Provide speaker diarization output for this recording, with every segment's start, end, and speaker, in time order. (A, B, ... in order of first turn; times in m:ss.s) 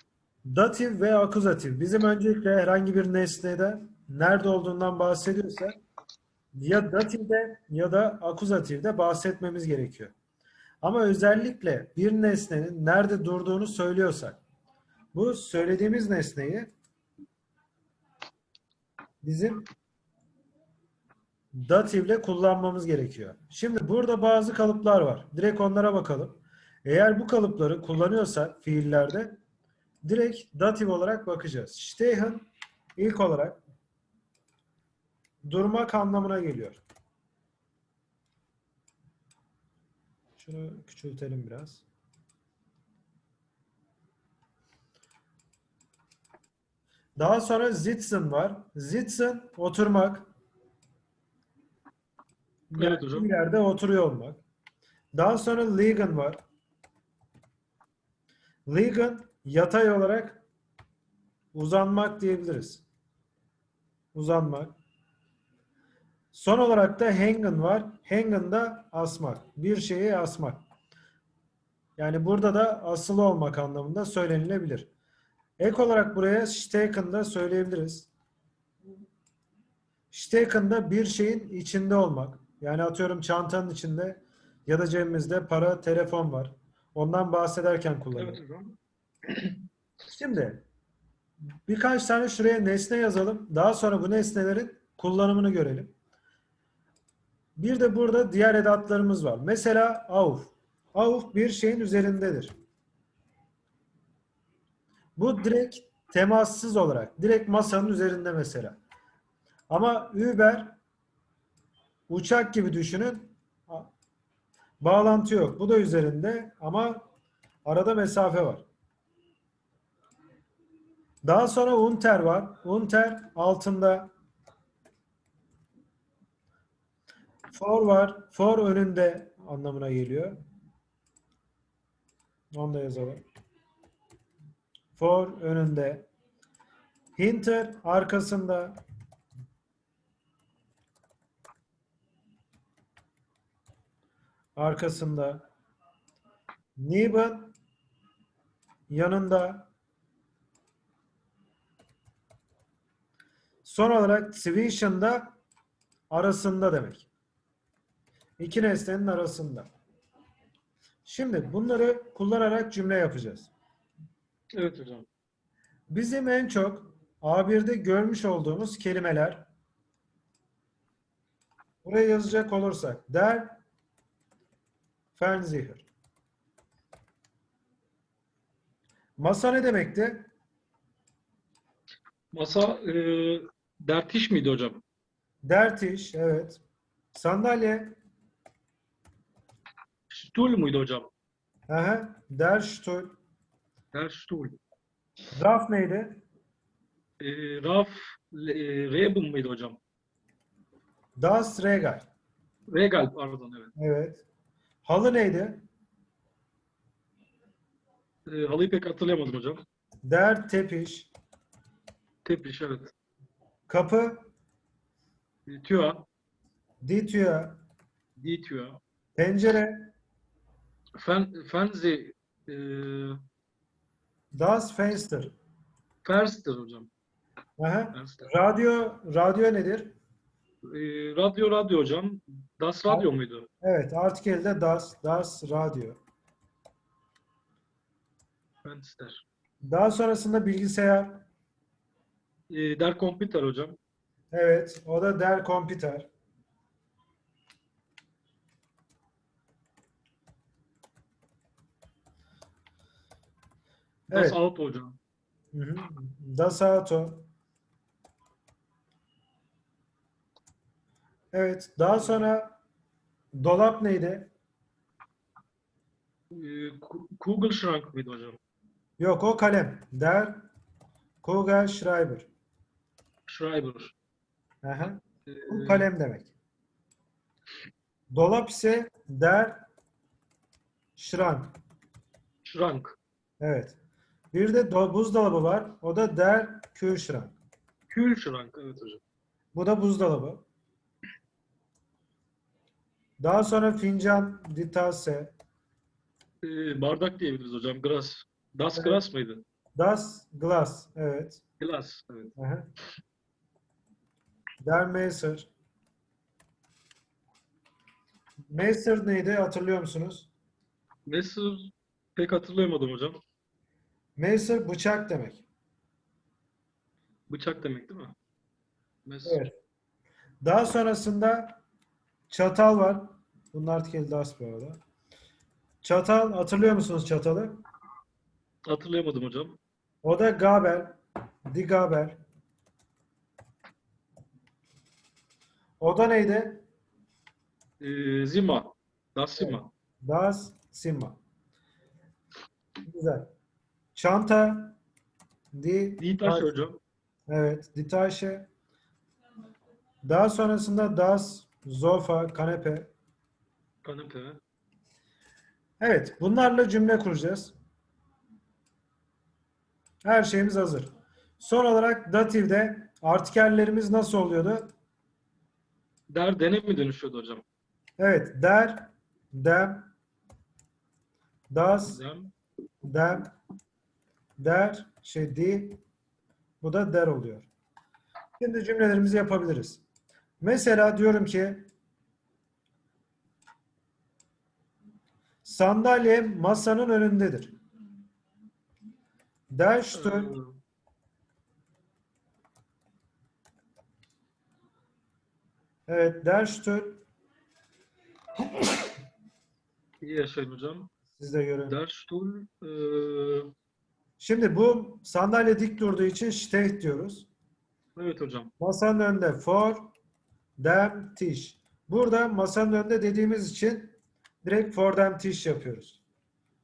0:00.4-0:05.8 A
0:06.6-0:10.1 A
0:10.8-0:14.4 A
0:15.1-0:16.7 A
0:19.2-0:19.7 A
0:21.5-0:29.4 A
0:30.0-0:33.6 A
0:35.4-0:36.8 A
0:40.4-0:41.8 A
0:47.2-0:50.3 A
0:52.7-0:53.3 B
0:52.7-0:54.4 A
0:55.1-0:56.4 A
0:58.6-1:00.4 A
1:01.5-1:02.8 A
1:04.1-1:04.8 A
1:06.3-1:10.6 A
1:12.0-1:14.9 A
1:15.6-1:18.1 A
1:20.1-1:28.4 A
1:28.1-1:28.8 B
1:29.3-1:29.6 B
1:30.1-1:30.6 A
1:31.7-1:35.9 A
1:37.6-1:42.5 A
1:45.2-1:48.8 A
1:49.7-1:50.8 A
1:52.1-1:53.9 A
1:54.8-1:57.0 A
1:57.6-1:58.6 A
2:01.2-2:04.1 A
2:07.5-2:10.4 A
2:12.5-2:13.2 A
2:15.0-2:16.1 A
2:17.2-2:18.8 A
2:24.6-2:25.4 A
2:26.8-2:27.5 A
2:28.9-2:29.7 A
2:33.6-2:35.3 A
2:36.1-2:37.1 A
2:38.4-2:39.7 A
2:41.0-2:43.5 A
2:44.5-2:45.0 B
2:45.9-2:49.5 A
2:51.8-2:53.6 A
2:55.1-2:55.8 A
2:59.2-3:00.3 A
3:02.3-3:04.8 B
3:05.4-3:06.6 A
3:07.1-3:08.0 A
3:10.1-3:11.1 B
3:11.7-3:13.2 A
3:13.9-3:14.6 B
3:15.3-3:16.2 A
3:17.2-3:19.8 B
3:21.2-3:22.0 A
3:22.7-3:23.7 B
3:23.8-3:24.2 A
3:24.8-3:25.6 A
3:28.3-3:29.6 B
3:30.0-3:31.1 A
3:32.2-3:32.9 B
3:33.7-3:34.2 A
3:35.5-3:36.1 B
3:36.8-3:37.6 A
3:38.2-3:38.8 B
3:39.2-3:39.9 A
3:41.0-3:43.2 B
3:44.3-3:45.3 A
3:46.0-3:46.9 B
3:47.6-3:49.9 A
3:47.9-3:48.3 B
3:50.7-3:53.5 B
3:53.6-3:56.0 A
3:58.6-3:59.2 B
3:59.6-4:01.2 A
4:02.5-4:03.8 B
4:04.3-4:06.1 A
4:14.1-4:14.4 A
4:14.1-4:15.0 B
4:15.5-4:17.3 A
4:21.3-4:22.6 A
4:23.3-4:24.3 A
4:26.3-4:28.4 B
4:29.0-4:30.4 A
4:31.2-4:32.3 A
4:33.3-4:33.9 B
4:34.6-4:36.3 A
4:35.3-4:35.9 B
4:38.1-4:39.7 A
4:41.0-4:41.6 A
4:42.4-4:43.0 B
4:43.4-4:43.8 A
4:44.3-4:47.4 A
4:47.9-4:49.0 B
4:49.5-4:50.4 A
4:53.2-4:55.3 A
4:56.4-4:59.4 B
4:58.7-4:59.0 A
4:59.8-5:01.4 A
5:01.6-5:02.3 B
5:02.4-5:02.7 A
5:04.6-5:05.5 A
5:08.5-5:10.3 A
5:11.0-5:13.2 B
5:14.2-5:15.4 A
5:17.3-5:18.1 B
5:19.0-5:19.4 B
5:19.2-5:19.5 A
5:20.4-5:21.6 A
5:22.3-5:24.8 A
5:25.8-5:27.6 A
5:28.6-5:29.6 B
5:30.0-5:32.2 A
5:35.8-5:36.6 A
5:37.8-5:39.7 B
5:39.4-5:41.2 A
5:42.8-5:43.3 A
5:43.9-5:44.8 A
5:45.5-5:46.5 A
5:46.0-5:46.8 B
5:47.3-5:48.5 A
5:50.0-5:52.9 A
5:53.8-5:54.4 B
5:55.8-5:57.5 A
6:00.0-6:04.7 A
6:06.1-6:07.4 B
6:08.0-6:09.9 A
6:11.5-6:12.0 A
6:11.9-6:12.3 B
6:12.8-6:13.3 A
6:14.4-6:15.8 A
6:16.6-6:17.5 A
6:18.4-6:19.8 A
6:20.4-6:21.7 A
6:25.4-6:27.5 A
6:29.5-6:30.3 A
6:29.9-6:30.5 B
6:35.9-6:37.0 A
6:40.0-6:40.9 B
6:41.2-6:41.8 A
6:41.7-6:43.5 B
6:44.2-6:47.3 A
6:48.0-6:48.5 B
6:48.6-6:49.9 A
6:50.6-6:56.0 A